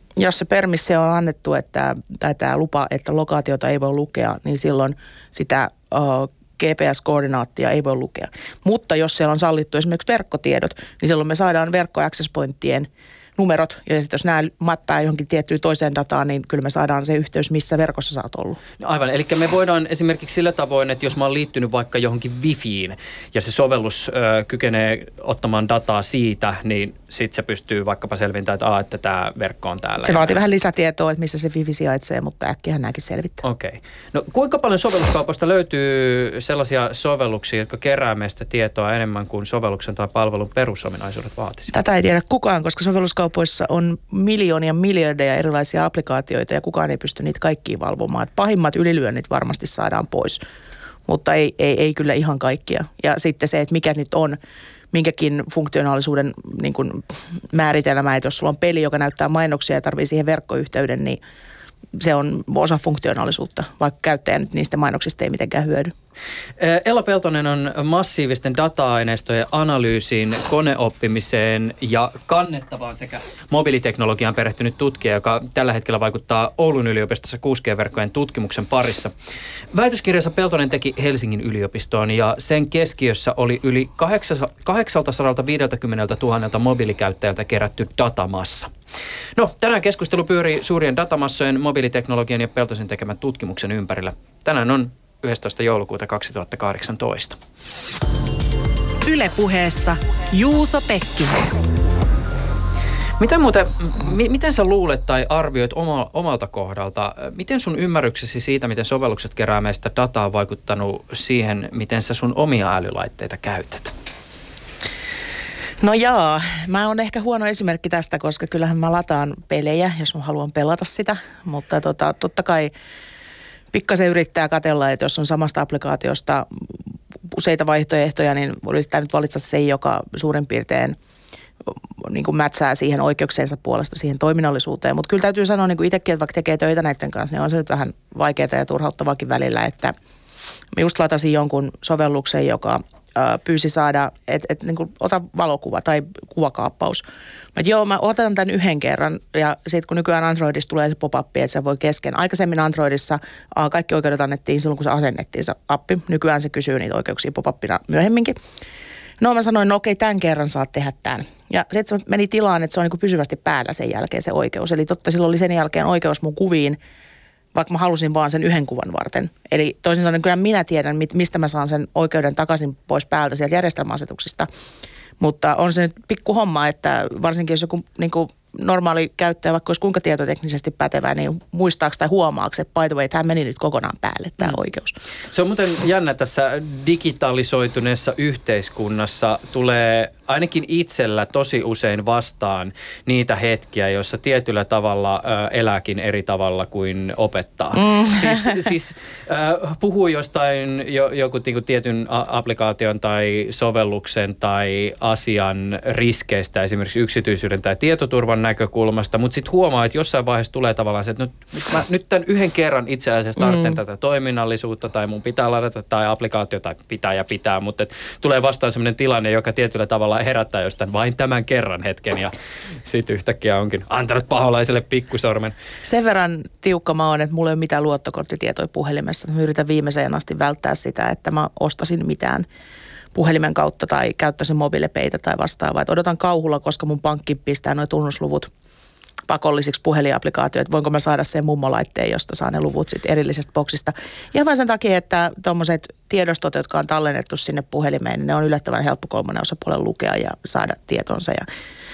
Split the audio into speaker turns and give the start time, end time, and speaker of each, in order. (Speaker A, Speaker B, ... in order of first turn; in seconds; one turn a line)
Speaker A: 0.2-18.6
Speaker B: 18.8-30.4
Speaker A: 30.0-33.4
Speaker B: 33.4-41.8
Speaker A: 41.7-50.4
Speaker A: 51.1-54.4
Speaker A: 54.9-61.2
Speaker A: 62.0-65.9
Speaker B: 66.6-79.1
Speaker B: 79.7-88.7
Speaker B: 89.4-97.4
Speaker C: 99.0-101.5
Speaker B: 103.2-113.9
Speaker A: 115.8-122.7
Speaker A: 123.7-126.5
Speaker A: 127.3-131.0
Speaker A: 131.7-139.9
Speaker A: 140.7-147.0
Speaker A: 147.6-158.4
Speaker A: 159.2-166.8
Speaker A: 167.5-174.5
Speaker A: 175.2-185.0
Speaker B: 185.3-222.3
Speaker A: 197.8-198.6
Speaker B: 222.8-225.5
Speaker A: 225.8-232.4
Speaker A: 233.1-238.5
Speaker A: 239.3-251.4